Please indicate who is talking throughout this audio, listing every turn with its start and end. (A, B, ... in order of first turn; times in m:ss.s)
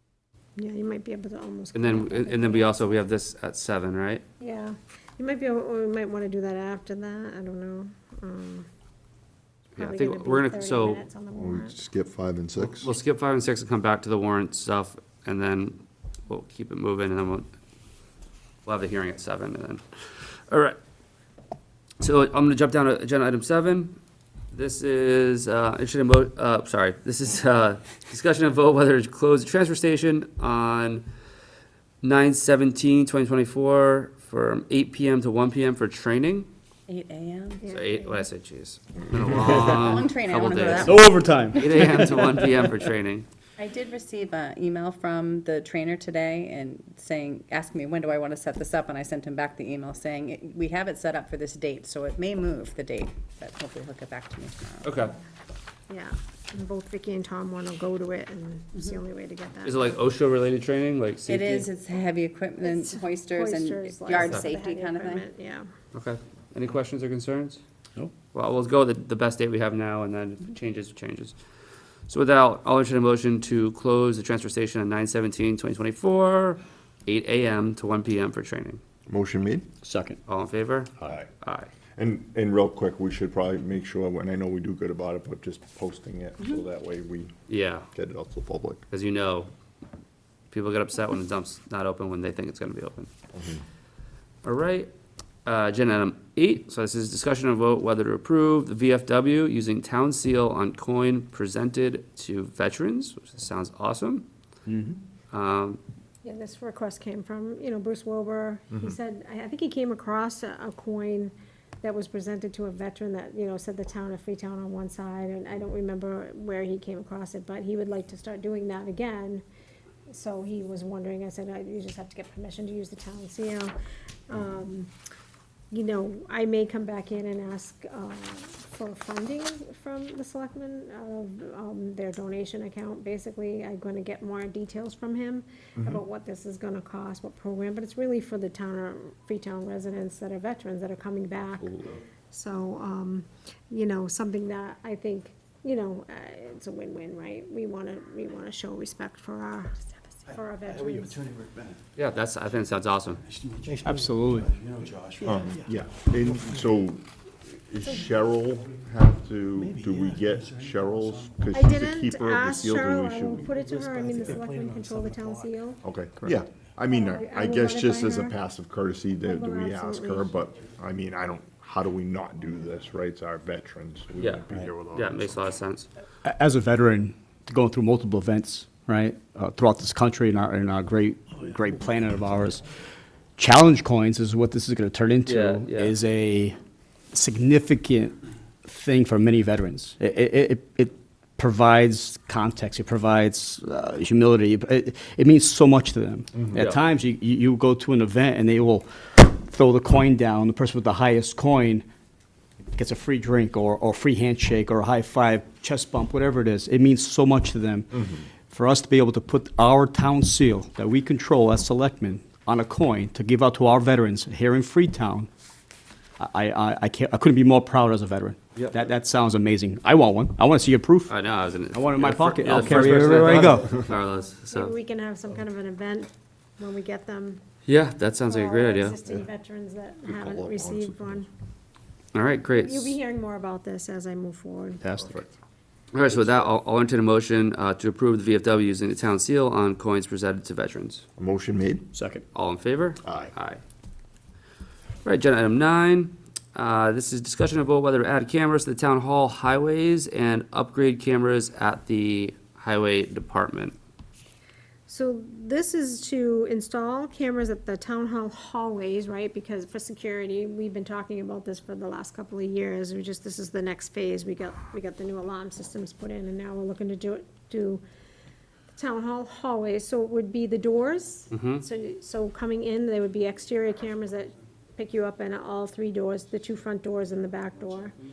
0:00.6-0:03.0 A
0:01.7-0:04.2 B
0:04.4-0:08.7 A
0:09.8-0:11.0 B
0:09.8-0:11.8 A
0:11.3-0:12.9 C
0:12.6-0:17.5 B
0:18.7-0:20.8 B
0:22.0-0:24.0 B
0:24.5-0:31.1 B
0:32.0-0:36.5 B
0:36.9-0:37.6 D
0:37.6-0:38.0 A
0:37.7-0:41.0 B
0:39.3-0:41.2 D
0:40.7-0:42.7 E
0:41.5-0:43.3 B
0:43.6-0:54.9 D
0:54.8-0:55.2 B
0:55.9-1:00.0 A
0:59.6-1:01.7 B
1:01.3-1:05.2 D
1:02.6-1:05.6 A
1:04.1-1:04.5 B
1:05.9-1:07.6 B
1:08.3-1:11.4 B
1:12.1-1:18.8 B
1:19.1-1:19.7 C
1:19.8-1:20.2 E
1:20.3-1:21.7 B
1:21.0-1:21.3 C
1:22.0-1:27.3 C
1:27.5-1:27.9 B
1:27.9-1:28.8 C
1:28.9-1:29.5 B
1:30.5-1:33.1 B
1:34.4-1:34.9 B
1:35.4-1:44.3 B
1:44.7-1:45.0 E
1:45.3-1:45.8 B
1:46.2-1:59.4 A
2:00.1-2:03.7 A
2:04.3-2:04.9 A
2:05.7-2:21.8 A
2:21.6-2:21.9 C
2:22.3-2:31.3 A
2:30.7-2:31.8 F
2:32.0-2:33.2 B
2:33.4-2:36.7 F
2:33.8-2:34.5 E
2:35.2-2:43.5 C
2:39.6-2:41.5 F
2:41.5-2:45.8 A
2:43.4-2:45.6 F
2:45.8-2:55.4 C
2:46.9-2:48.4 A
2:49.2-2:50.4 A
2:54.2-2:55.9 B
2:56.2-3:02.7 E
3:03.4-3:06.6 E
3:05.3-3:05.9 B
3:07.1-3:21.9 E
3:16.5-3:16.8 B
3:22.7-3:35.3 E
3:36.2-3:41.1 E
3:41.1-3:44.7 B
3:41.7-3:43.8 E
3:44.5-3:47.4 A
3:47.7-3:49.0 B
3:48.2-3:51.3 A
3:50.1-3:51.2 C
3:52.1-3:53.0 B
3:52.6-3:55.1 A
3:54.8-3:55.3 C
3:55.9-4:01.0 B
4:01.2-4:01.9 C
4:01.9-4:02.2 E
4:02.3-4:03.6 B
4:03.0-4:03.3 C
4:05.0-4:13.8 B
4:14.9-4:27.8 A
4:28.8-4:38.0 A
4:31.3-4:31.6 B